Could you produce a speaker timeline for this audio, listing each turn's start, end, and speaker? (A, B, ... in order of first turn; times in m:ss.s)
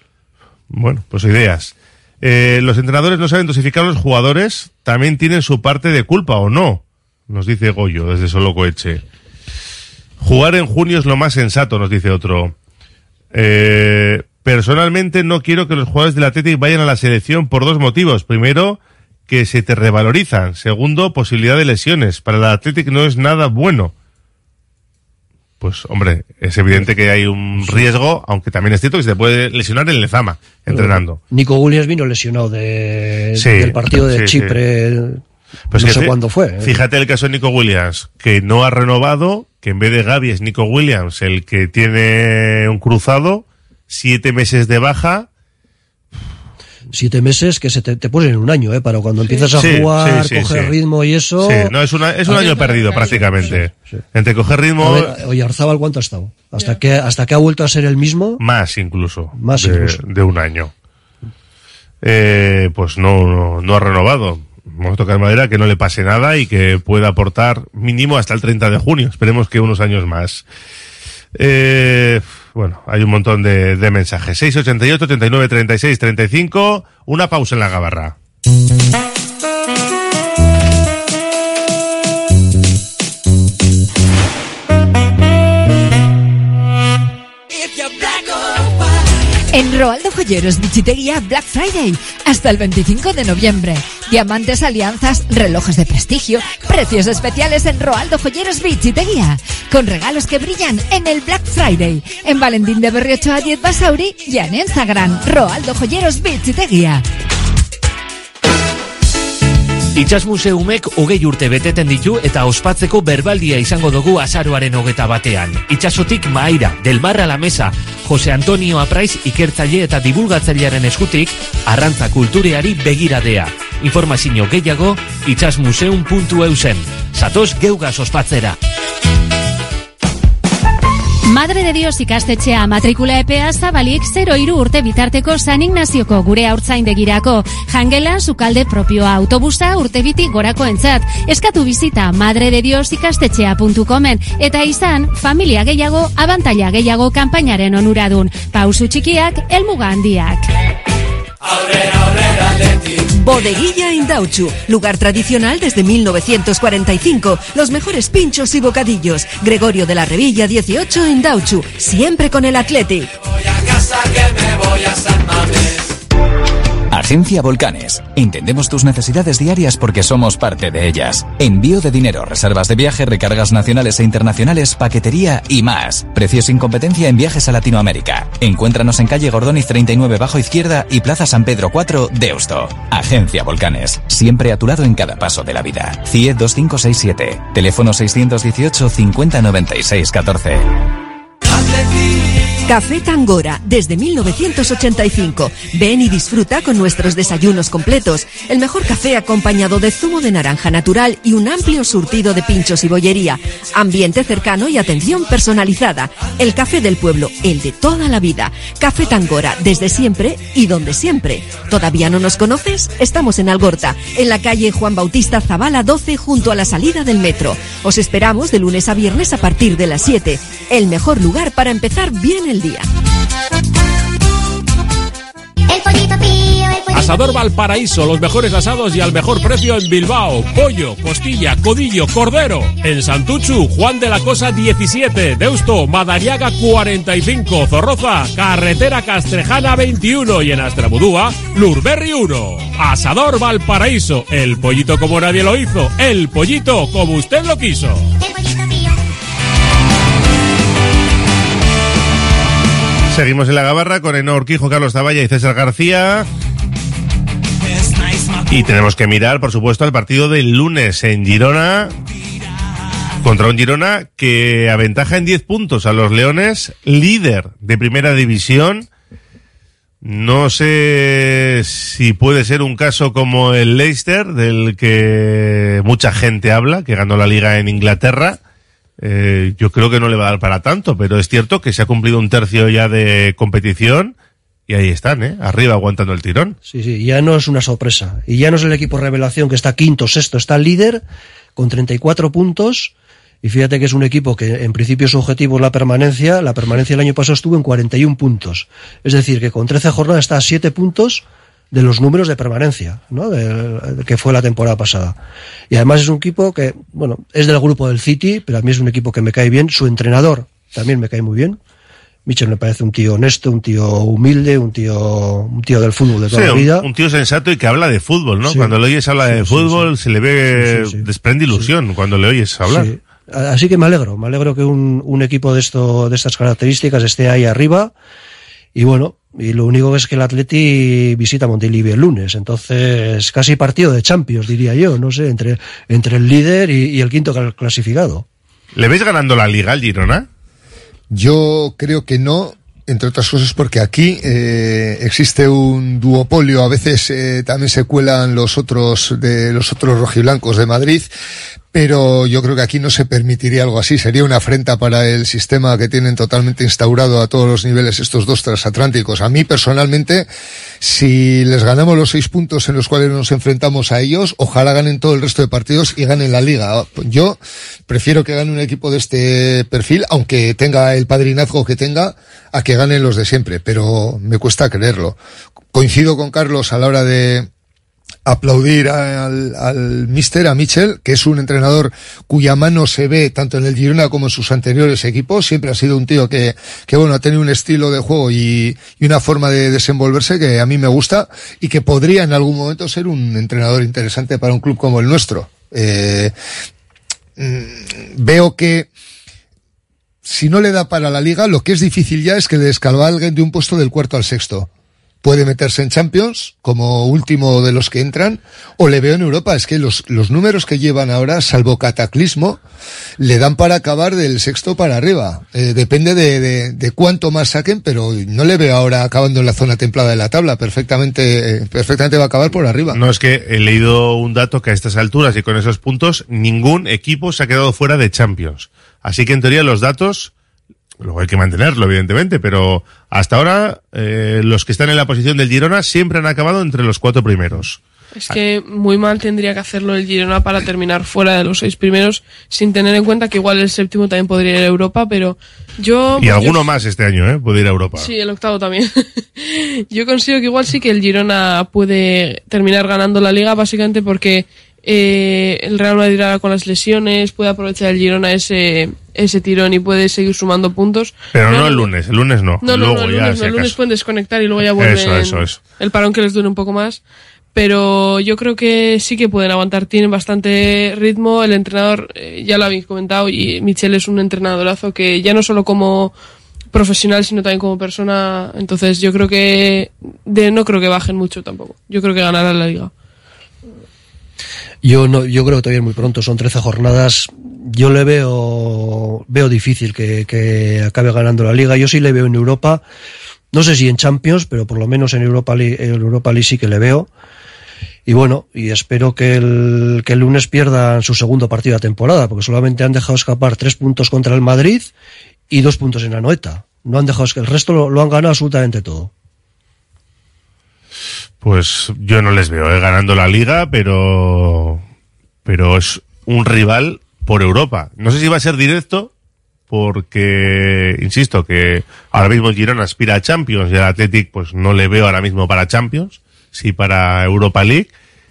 0:00.7-0:09.0 A
0:10.2-0:12.5 A
0:13.3-0:23.9 A
0:25.6-0:31.2 A
0:27.6-0:27.9 B
0:30.7-0:36.8 B
0:33.4-0:34.6 A
0:35.7-0:45.3 A
0:46.9-0:51.7 B
0:49.6-0:50.8 A
0:51.4-0:55.2 A
0:52.3-0:52.6 B
0:52.3-0:53.5 C
0:53.3-0:54.0 B
0:54.8-0:58.4 B
0:58.4-1:00.7 A
0:59.4-1:00.0 B
1:02.0-1:10.4 A
1:11.3-1:18.1 A
1:29.5-1:47.0 D
1:49.9-2:08.6 E
2:11.3-2:30.5 F
2:33.1-2:43.1 G
2:46.9-3:10.7 H
3:12.6-3:42.9 G
3:46.9-4:08.1 I
4:13.1-4:16.3 A
4:18.5-4:21.9 A
4:23.2-4:28.9 A
4:30.0-4:38.4 A
4:39.0-4:44.1 A
4:44.7-4:46.6 A
4:46.6-4:51.0 B
4:51.6-4:52.9 B
4:53.4-5:05.2 B
5:05.7-5:11.6 B
5:12.2-5:16.9 B
5:16.3-5:22.9 A
5:18.4-5:19.9 B
5:20.5-5:21.7 B
5:22.6-5:27.9 B
5:28.7-5:38.2 B
5:38.7-5:40.3 A
5:41.1-5:51.1 J
5:51.7-6:00.3 J
6:00.8-6:15.2 J
6:15.7-6:17.5 J
6:18.2-6:36.3 J
6:37.4-6:38.9 J
6:40.2-6:44.7 J
6:45.2-6:52.6 J
6:53.2-7:03.0 J
7:02.9-7:10.3 A
7:11.0-7:18.4 A
7:18.1-7:26.6 C
7:26.2-7:28.1 A
7:28.0-7:41.9 C
7:41.3-7:43.8 A
7:42.6-7:47.0 C
7:44.8-7:45.6 A
7:47.5-7:56.1 C
7:56.7-8:02.9 C
8:04.8-8:12.8 B
8:13.5-8:17.1 B
8:18.1-8:24.9 B
8:25.5-8:29.1 B
8:31.4-8:34.8 A
8:35.4-8:39.1 A
8:39.7-8:47.9 A